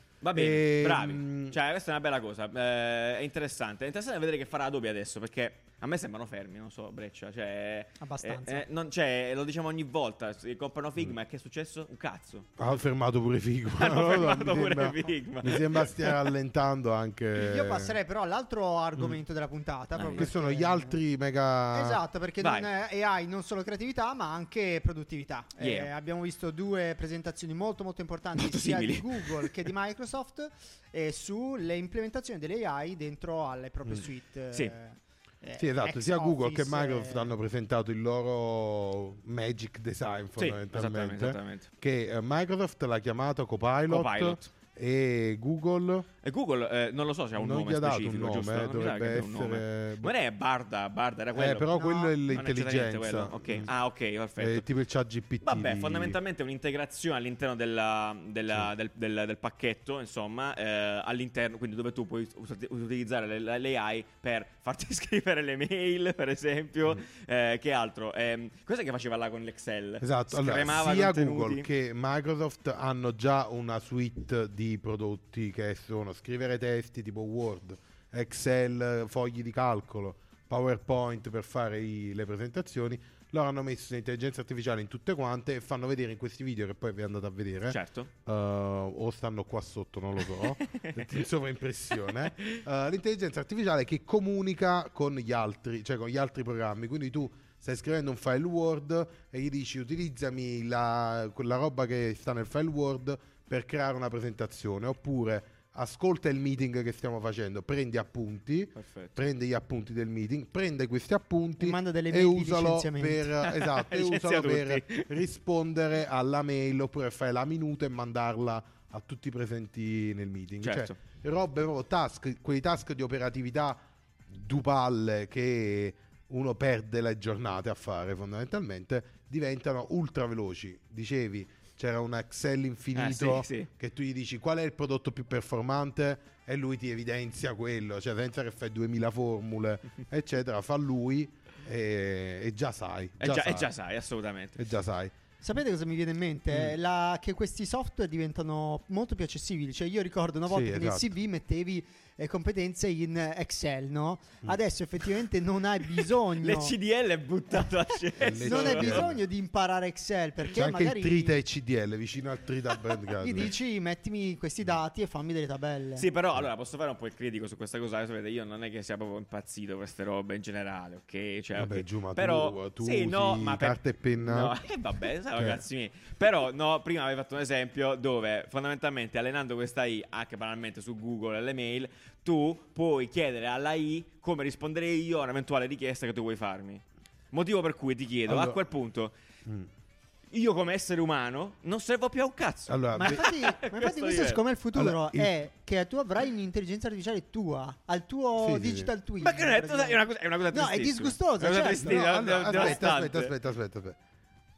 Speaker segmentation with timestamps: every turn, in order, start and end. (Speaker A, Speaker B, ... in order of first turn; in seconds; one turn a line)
Speaker A: 0.2-12.5
Speaker B: 0.3-1.6
Speaker C: 8.0-8.6
Speaker B: 12.6-18.0
Speaker A: 13.8-16.3
Speaker C: 17.4-21.0
Speaker A: 19.9-20.3
Speaker B: 20.1-22.0
Speaker C: 21.7-37.3
Speaker A: 22.4-22.7
Speaker A: 25.6-25.9
Speaker A: 28.4-29.6
Speaker B: 35.6-46.1
Speaker A: 40.4-41.7
Speaker A: 43.9-44.5
Speaker A: 46.2-54.7
Speaker B: 47.4-50.1
Speaker B: 51.3-53.7
Speaker B: 54.4-56.2
Speaker A: 55.4-71.7
Speaker B: 70.0-143.7
Speaker A: 87.7-88.1
Speaker A: 90.7-91.1
Speaker A: 108.8-109.2
Speaker C: 111.6-113.3
Speaker A: 113.4-115.1
Speaker A: 120.6-121.0
Speaker A: 132.9-133.7
Speaker A: 143.2-144.6
Speaker B: 144.6-145.1
Speaker C: 145.4-156.7
Speaker B: 146.5-146.8
Speaker B: 150.5-151.1
Speaker A: 156.4-159.1
Speaker C: 158.2-161.4
Speaker B: 158.2-159.2
Speaker B: 160.5-163.5
Speaker C: 163.2-166.1
Speaker A: 166.0-189.1
Speaker B: 171.6-174.5
Speaker B: 175.3-175.6
Speaker B: 188.2-188.6
Speaker B: 189.4-189.7
Speaker A: 190.3-194.4
Speaker B: 192.7-193.3
Speaker C: 192.9-202.8
Speaker B: 194.7-195.3
Speaker B: 198.4-198.9
Speaker A: 199.2-203.3
Speaker B: 201.5-204.0